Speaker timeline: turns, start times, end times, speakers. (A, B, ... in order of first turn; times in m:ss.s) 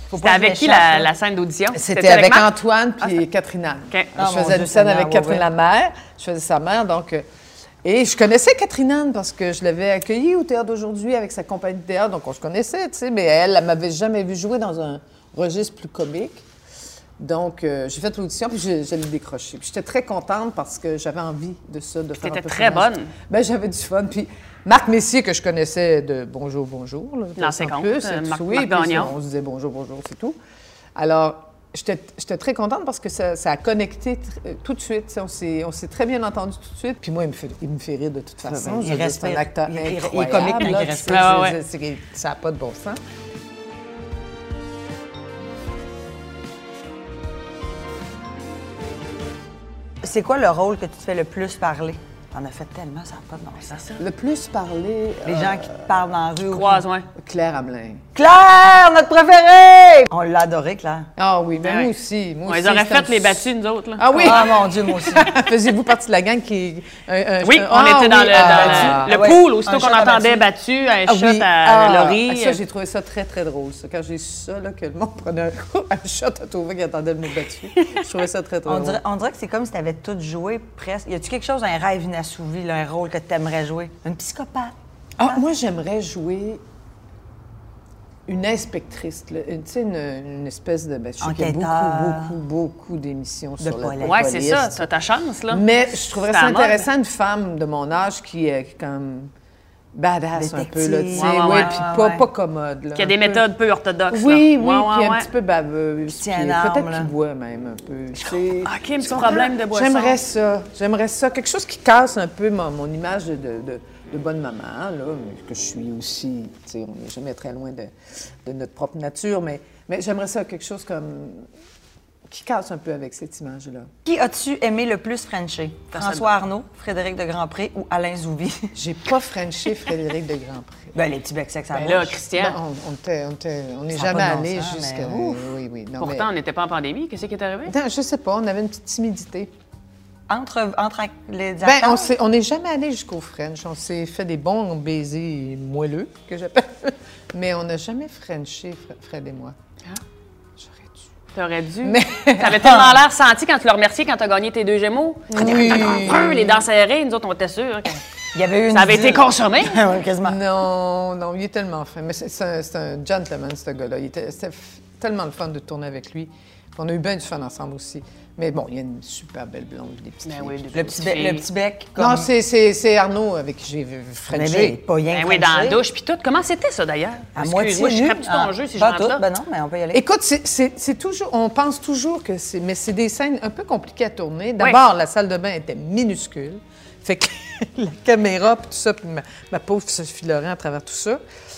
0:00.1-0:01.1 A
0:00.2-0:03.2 B
0:01.7-0:07.2 C
0:04.2-0:05.5 A
0:07.8-0:16.4 C
0:17.2-0:30.4 C
0:22.2-0:23.1 B
0:27.4-0:29.1 B
0:30.9-0:43.0 C
0:38.4-0:41.4 A
0:40.3-0:41.6 B
0:50.0-0:53.8 A
0:53.6-0:54.0 B
0:54.0-0:56.0 C
0:55.2-0:56.9 A
0:56.5-0:57.0 B
0:57.2-0:58.0 C
0:58.1-1:01.1 A
1:01.2-1:09.2 C
1:01.6-1:01.9 B
1:02.4-1:04.5 B
1:04.2-1:05.3 A
1:07.4-1:12.6 B
1:08.3-1:10.4 A
1:11.0-1:19.0 C
1:17.8-1:18.0 B
1:18.6-1:24.7 A
1:25.2-1:26.6 C
1:28.3-1:34.9 C
1:31.2-1:32.4 A
1:33.6-1:34.2 A
1:34.0-1:35.6 B
1:35.5-1:39.3 C
1:36.1-1:36.8 B
1:39.9-1:43.5 C
1:40.3-1:42.2 A
1:41.1-1:41.7 B
1:42.9-1:45.3 B
1:44.1-1:57.9 C
1:46.1-1:47.1 A
1:48.6-1:50.2 B
1:58.4-2:01.5 C
2:02.3-2:03.9 C
2:04.0-2:08.8 A
2:05.9-2:06.3 B
2:08.7-2:10.9 C
2:10.9-2:12.2 A
2:11.7-2:12.6 B
2:12.2-2:16.3 C
2:13.9-2:15.5 A
2:16.0-2:17.7 B
2:17.6-2:19.5 C
2:20.3-2:22.1 A
2:21.6-2:29.5 C
2:30.6-2:31.0 C
2:31.3-2:38.0 B
2:31.8-2:32.9 C
2:35.3-2:36.6 C
2:35.3-2:36.1 A
2:38.3-2:40.4 A
2:38.7-2:39.9 B
2:40.2-2:50.9 C
2:50.2-2:51.5 B
2:50.7-2:52.3 A
2:52.0-2:54.8 C
2:54.3-2:55.8 A
2:55.1-2:59.2 B
2:57.4-3:00.0 A
2:59.9-3:11.2 C